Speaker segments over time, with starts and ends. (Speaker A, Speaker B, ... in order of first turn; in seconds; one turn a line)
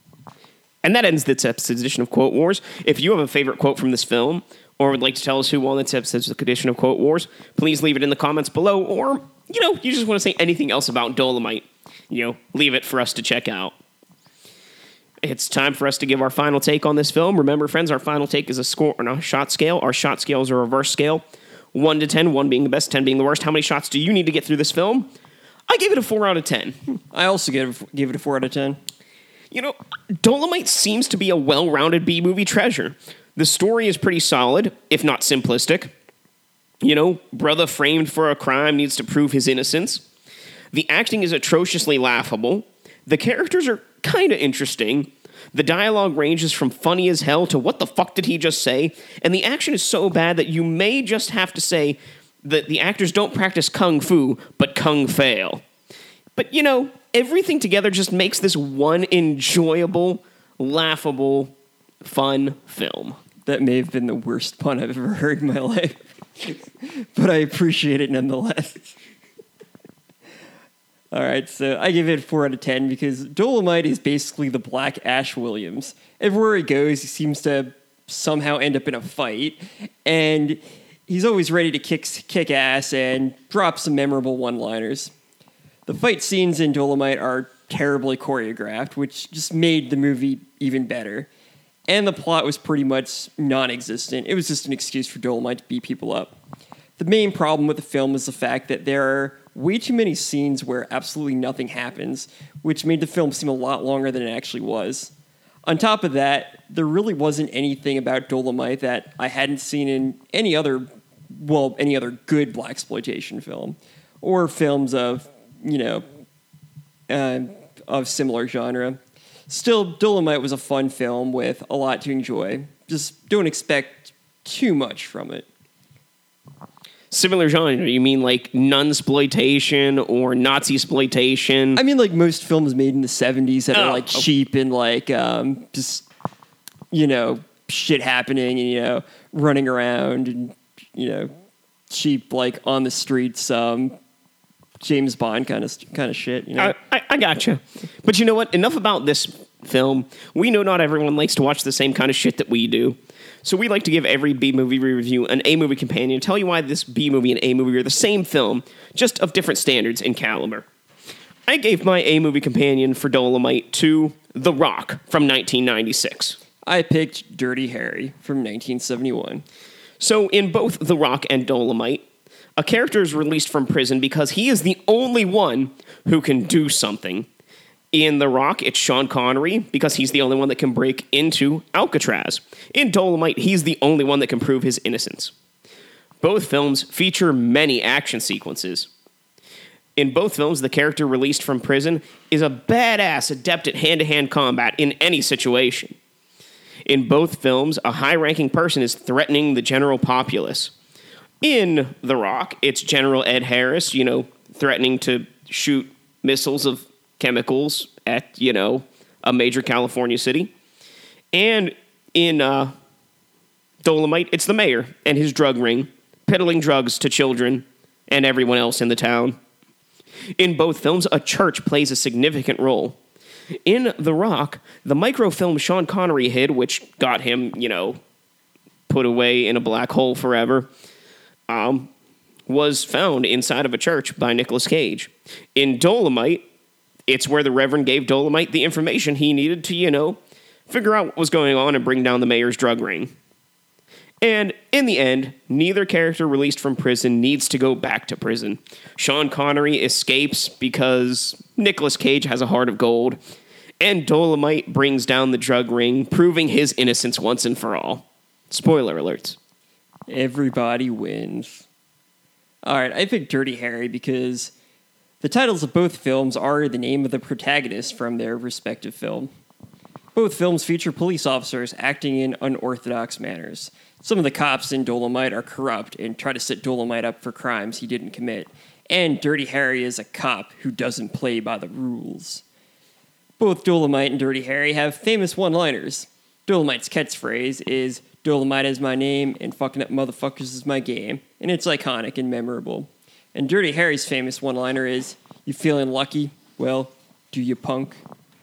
Speaker A: 0.8-13.7
Speaker A: 15.2-25.1
Speaker A: 25.7-26.8
Speaker B: 27.1-28.8
Speaker A: 29.5-35.9
Speaker A: 36.8-40.0
Speaker A: 40.7-55.6
Speaker A: 56.4-63.2
Speaker B: 63.5-69.0
Speaker B: 71.1-85.1
Speaker B: 85.9-91.3
Speaker B: 91.9-96.4
Speaker B: 97.0-105.1
Speaker B: 105.7-116.0
Speaker B: 117.1-125.5
Speaker A: 127.1-131.8
Speaker B: 131.8-136.1
Speaker A: 133.7-134.2
Speaker B: 136.9-141.3
Speaker B: 141.9-144.0
Speaker B: 144.8-146.8
Speaker A: 146.6-160.7
Speaker A: 161.5-166.4
Speaker B: 166.7-169.4
Speaker A: 170.0-172.0
Speaker A: 172.6-177.3
Speaker A: 177.9-185.3
Speaker A: 186.2-188.9
Speaker A: 190.0-195.9
Speaker A: 196.9-200.7
Speaker A: 201.4-210.5
Speaker A: 211.3-212.7
Speaker A: 213.8-219.4
Speaker A: 220.4-223.0
Speaker A: 223.7-228.0
Speaker A: 228.9-230.7
Speaker A: 231.5-231.9
Speaker A: 232.5-236.4
Speaker A: 237.1-243.1
Speaker A: 244.2-253.2
Speaker A: 253.8-259.4
Speaker B: 260.1-261.7
Speaker B: 262.6-264.5
Speaker B: 265.2-269.3
Speaker B: 270.1-282.4
Speaker B: 283.4-298.0